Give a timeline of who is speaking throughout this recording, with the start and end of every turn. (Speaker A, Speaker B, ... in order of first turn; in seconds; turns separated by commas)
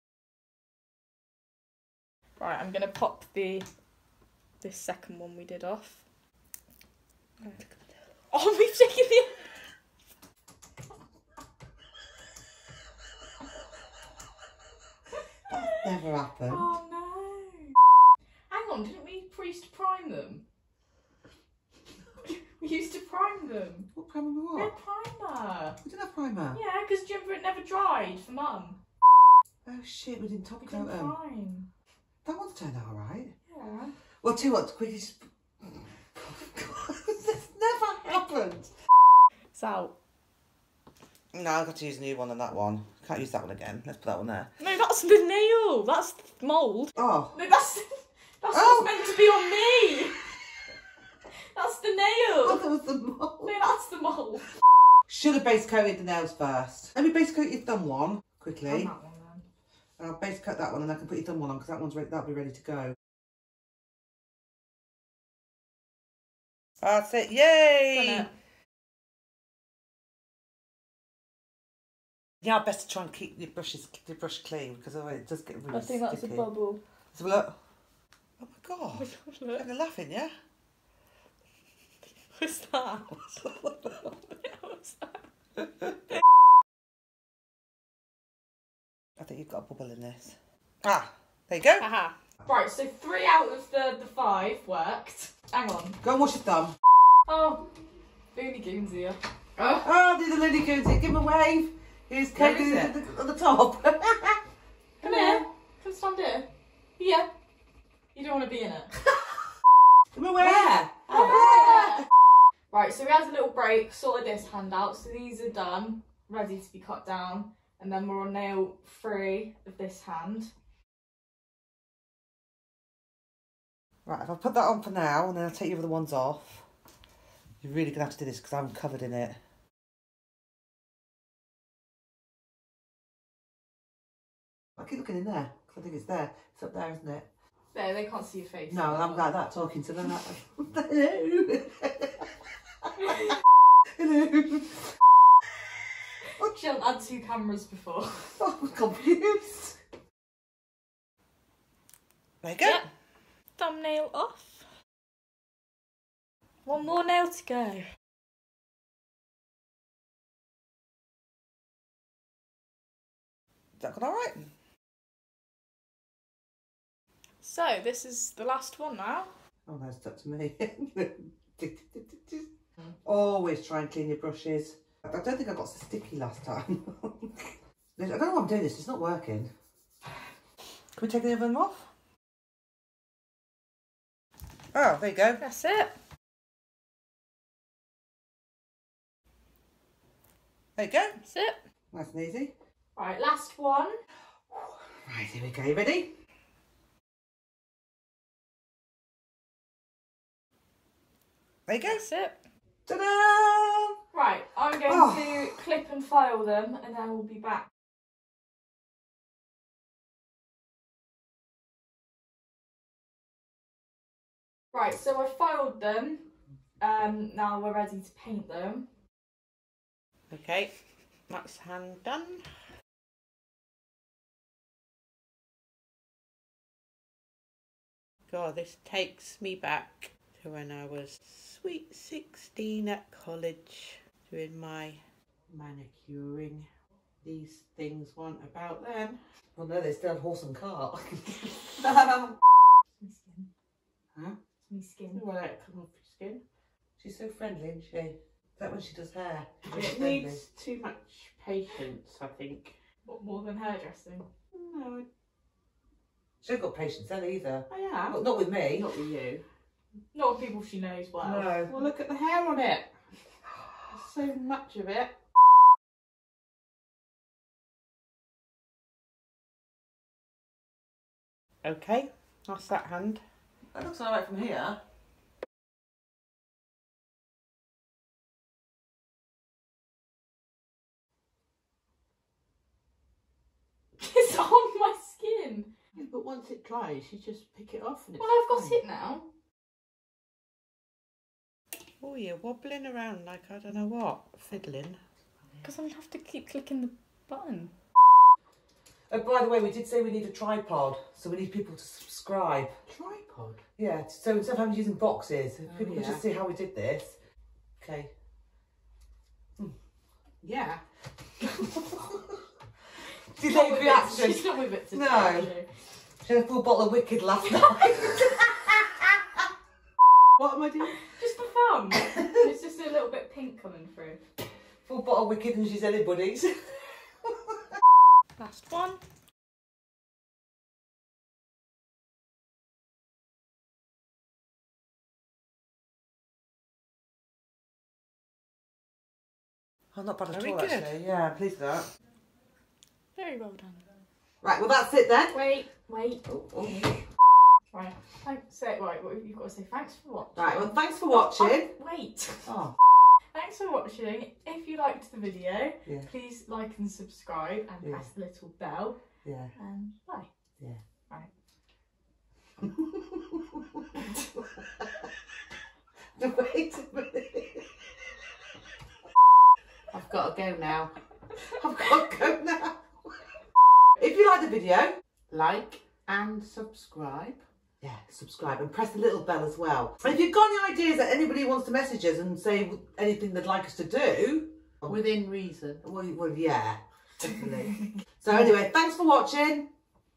Speaker A: 2.4-3.6, Speaker A: 4.6-6.0, Speaker A: 8.3-9.4, Speaker A: 15.5-15.8, Speaker B: 15.5-16.7, Speaker A: 16.5-17.7, Speaker A: 18.5-20.4, Speaker A: 22.2-23.9, Speaker B: 23.9-24.7, Speaker A: 24.5-25.8, Speaker B: 25.8-26.6, Speaker A: 26.5-28.8, Speaker B: 29.6-31.1, Speaker A: 30.6-31.7, Speaker B: 32.2-33.3, Speaker A: 33.5-33.9, Speaker B: 34.2-38.7, Speaker A: 39.5-39.9, Speaker B: 41.3-44.5, Speaker A: 44.6-50.2, Speaker B: 47.0-47.4, Speaker B: 48.5-48.9, Speaker A: 51.5-52.6, Speaker B: 52.4-53.5, Speaker A: 53.4-54.5, Speaker B: 55.1-58.9, Speaker A: 58.7-59.4, Speaker B: 60.0-63.0, Speaker B: 66.8-68.3, Speaker A: 67.9-68.3, Speaker B: 72.4-76.5, Speaker A: 75.7-76.8, Speaker B: 77.1-77.5, Speaker B: 78.4-80.3, Speaker A: 78.9-79.7, Speaker A: 82.2-85.2, Speaker B: 89.2-91.8, Speaker A: 91.8-96.0, Speaker B: 96.0-96.8, Speaker A: 97.3-97.7, Speaker A: 98.3-99.8, Speaker B: 99.8-104.4, Speaker C: 102.3-102.9, Speaker A: 105.0-107.3, Speaker B: 105.0-105.4, Speaker A: 108.1-108.9, Speaker B: 110.1-112.0, Speaker C: 110.5-110.8, Speaker A: 111.1-112.0, Speaker A: 112.7-120.5, Speaker B: 124.0-126.7, Speaker B: 127.6-129.4, Speaker B: 134.8-137.3, Speaker A: 137.7-139.3, Speaker B: 138.7-142.3, Speaker B: 144.0-144.9, Speaker A: 146.4-148.3, Speaker B: 148.4-149.8, Speaker B: 152.4-152.8, Speaker A: 153.6-154.6, Speaker A: 156.7-157.9, Speaker B: 163.8-164.5, Speaker A: 167.4-169.3, Speaker B: 169.7-172.5, Speaker B: 173.0-179.5, Speaker B: 180.9-181.9, Speaker B: 184.7-185.4, Speaker A: 185.4-185.9, Speaker B: 190.8-191.2, Speaker A: 191.2-191.6, Speaker B: 191.9-192.5, Speaker A: 192.9-193.9, Speaker B: 194.5-196.1, Speaker B: 201.7-202.0, Speaker A: 201.8-202.4, Speaker B: 202.9-203.9, Speaker A: 204.1-207.7, Speaker B: 204.9-205.5, Speaker A: 214.7-216.2, Speaker A: 216.8-218.9, Speaker C: 220.3-220.7, Speaker C: 221.3-222.5, Speaker C: 228.3-236.7, Speaker C: 237.2-239.2, Speaker B: 239.6-241.8, Speaker C: 241.8-242.3, Speaker A: 243.0-243.5, Speaker A: 244.6-245.2, Speaker C: 245.1-246.4, Speaker B: 247.0-250.4, Speaker C: 249.6-252.7, Speaker A: 253.1-254.2, Speaker C: 254.5-255.1, Speaker B: 256.4-258.9, Speaker C: 257.7-259.4, Speaker A: 260.1-261.6, Speaker B: 261.2-261.7, Speaker C: 261.7-263.1, Speaker C: 263.9-265.1, Speaker C: 271.6-273.2, Speaker B: 273.7-274.8, Speaker A: 284.0-285.7, Speaker C: 285.9-288.8, Speaker A: 288.2-289.2, Speaker C: 292.0-295.0, Speaker A: 295.6-297.7, Speaker B: 299.1-302.7, Speaker C: 302.9-303.6, Speaker B: 303.8-307.2, Speaker C: 305.7-306.2, Speaker B: 307.8-308.1, Speaker C: 310.4-310.8, Speaker B: 313.4-315.5, Speaker A: 313.4-315.7, Speaker B: 316.2-319.4, Speaker A: 317.5-318.3, Speaker C: 320.4-320.9, Speaker A: 320.9-324.2, Speaker B: 324.9-327.5, Speaker A: 328.4-329.0, Speaker B: 339.9-341.9, Speaker C: 340.3-340.9, Speaker A: 343.1-343.8, Speaker B: 344.4-345.4, Speaker A: 345.3-346.2, Speaker A: 347.7-352.6, Speaker B: 350.4-351.7, Speaker B: 352.5-352.7, Speaker A: 353.3-359.0, Speaker B: 359.2-359.5, Speaker A: 359.5-360.3, Speaker B: 362.9-363.6, Speaker B: 364.6-365.1, Speaker B: 366.2-367.7, Speaker C: 369.9-370.9, Speaker B: 371.5-373.1, Speaker B: 374.0-375.0, Speaker C: 375.3-377.4, Speaker B: 377.8-385.0, Speaker C: 384.9-385.8, Speaker B: 385.8-389.7